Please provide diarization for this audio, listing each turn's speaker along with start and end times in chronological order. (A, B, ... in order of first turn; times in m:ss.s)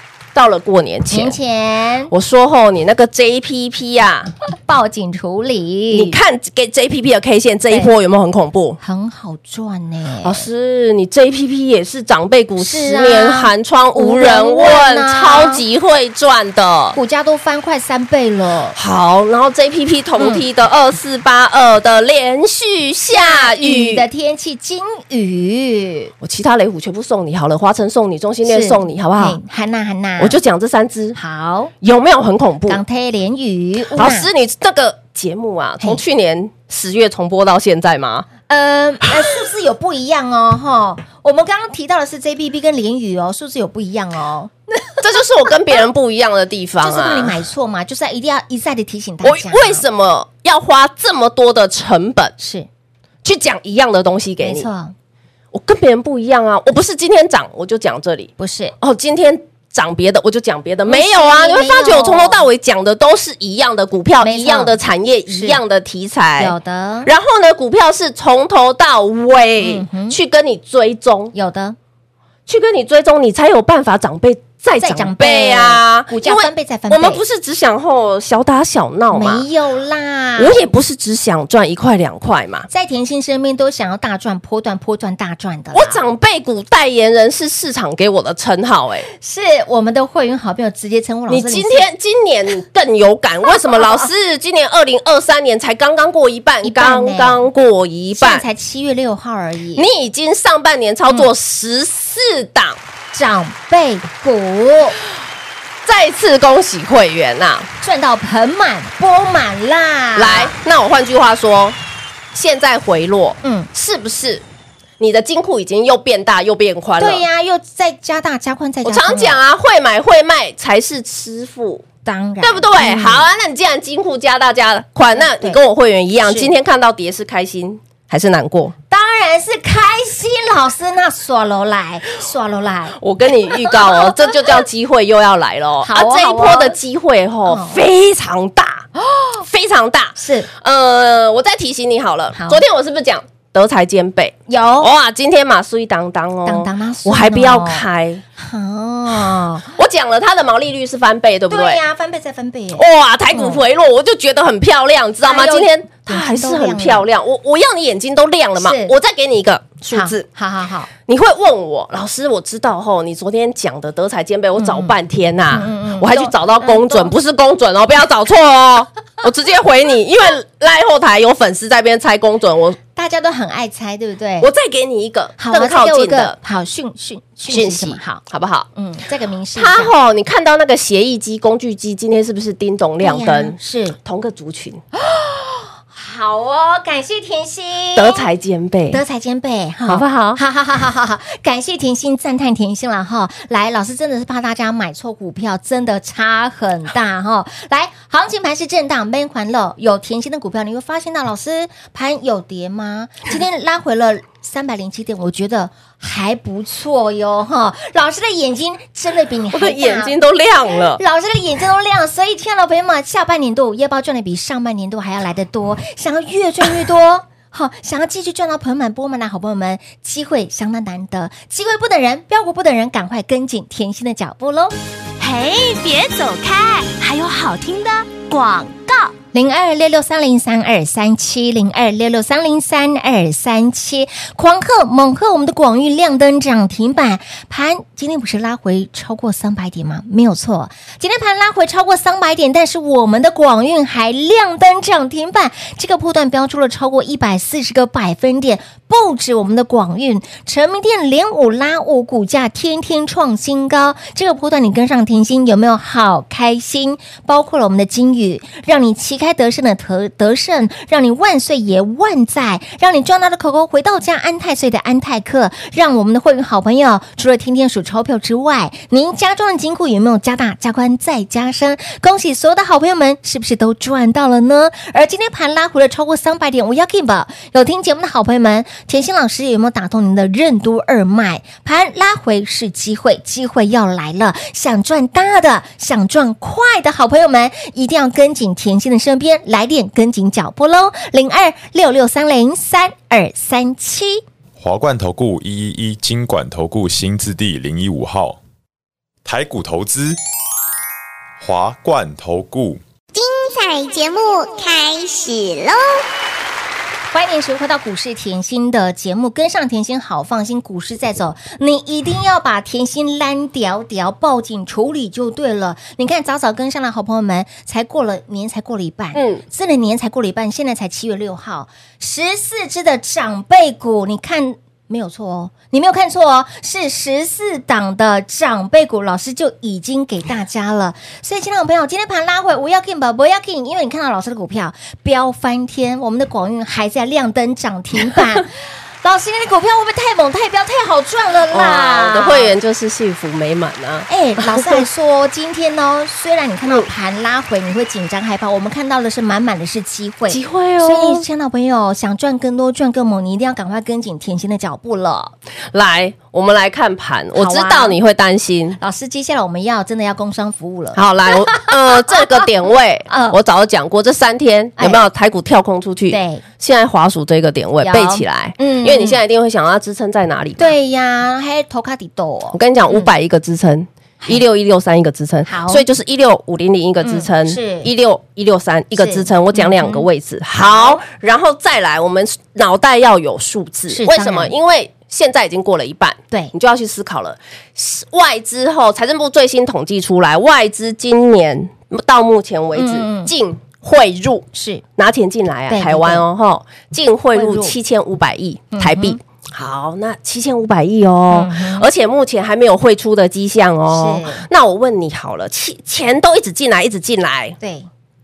0:00.3-0:01.4 A
0:01.1-0:02.1 B
0:02.1-0:04.3 A
0:04.6-0:06.2 B
0:05.9-0:08.8 A
0:08.8-0:10.5 B
0:10.2-0:17.0 A
0:12.6-0:15.6 B
0:17.0-0:18.8 B
0:18.8-0:24.0 A
0:20.2-0:20.4 B
0:23.1-0:26.1 B
0:26.2-0:29.4 A
0:28.5-0:30.4 B
0:30.2-0:31.2 A
0:31.2-0:31.7 B
0:31.8-0:32.8 A
0:32.7-0:34.3 B
0:34.0-0:38.3 A
0:38.5-0:44.5 B
0:45.0-0:47.4 A
0:46.8-0:49.8 B
0:49.2-0:52.3 A
0:52.4-0:52.7 B
0:53.2-0:54.7 A
0:54.4-0:54.9 B
0:55.5-1:06.6 A
0:58.4-0:58.7 B
1:00.9-1:02.4 B
1:04.2-1:04.8 B
1:05.3-1:05.6 B
1:06.4-1:07.1 B
1:07.1-1:11.3 A
1:09.6-1:10.2 B
1:11.3-1:11.8 B
1:12.5-1:19.4 A
1:14.8-1:17.2 B
1:19.1-1:20.6 B
1:20.4-1:22.7 A
1:22.7-1:26.0 B
1:25.7-1:29.1 A
1:29.2-1:31.9 B
1:31.3-1:38.4 A
1:33.5-1:34.1 B
1:36.6-1:37.5 B
1:38.2-1:39.8 B
1:39.8-1:42.8 A
1:43.1-1:45.0 B
1:45.8-1:47.7 A
1:47.8-1:50.5 B
1:50.2-1:51.8 A
1:52.3-1:54.4 A
1:53.4-1:53.7 B
1:55.0-1:57.2 A
1:57.0-1:59.4 B
1:58.8-2:01.8 A
2:02.0-2:03.3 B
2:02.4-2:08.8 A
2:05.1-2:05.6 B
2:06.2-2:06.5 B
2:08.9-2:13.0 B
2:13.0-2:18.9 A
2:13.5-2:14.4 B
2:15.8-2:16.8 B
2:17.5-2:17.8 B
2:19.1-2:19.4 B
2:19.4-2:28.2 A
2:20.2-2:20.5 B
2:22.4-2:22.6 B
2:24.5-2:24.9 B
2:26.5-2:27.8 B
2:28.4-2:29.7 B
2:29.8-2:31.8 A
2:31.5-2:33.6 B
2:32.8-2:40.2 A
2:35.2-2:37.1 B
2:38.6-2:38.9 B
2:39.9-2:40.9 B
2:41.1-2:52.8 A
2:44.6-2:44.9 B
2:45.5-2:47.1 B
2:53.0-2:54.5 B
2:54.4-2:56.4 A
2:55.4-2:58.2 B
2:57.5-2:58.7 A
2:58.8-2:59.9 B
2:59.6-3:04.8 A
3:03.0-3:04.0 B
3:05.0-3:08.3 B
3:08.0-3:09.0 A
3:08.9-3:30.2 B
3:09.9-3:10.4 A
3:29.5-3:31.0 A
3:31.0-3:44.8 B
3:45.2-3:49.1 C
3:49.3-4:54.2 B
4:54.6-4:58.4 D
4:59.2-5:00.2 D
5:01.4-5:02.8 D
5:03.1-5:06.0 E
5:07.1-5:38.5 B
5:19.2-5:19.4 A
5:39.0-5:42.6 B
5:41.5-5:44.9 A
5:44.1-5:55.3 B
5:50.3-5:51.2 A
5:55.7-5:58.8 A
5:57.4-5:58.0 B
5:58.8-6:02.2 B
6:01.0-6:10.7 A
6:03.1-6:03.4 B
6:06.1-6:06.4 B
6:07.8-6:09.2 B
6:10.6-6:13.1 B
6:12.5-6:47.6 A
6:15.5-6:15.8 B
6:17.0-6:17.9 B
6:19.0-6:20.1 B
6:20.6-6:21.0 B
6:23.9-6:24.6 B
6:32.8-6:33.3 B
6:34.5-6:34.8 B
6:35.7-6:36.2 B
6:37.3-6:37.8 B
6:38.7-6:39.2 B
6:41.3-6:41.9 B
6:43.9-6:44.5 B
6:47.6-6:47.9 B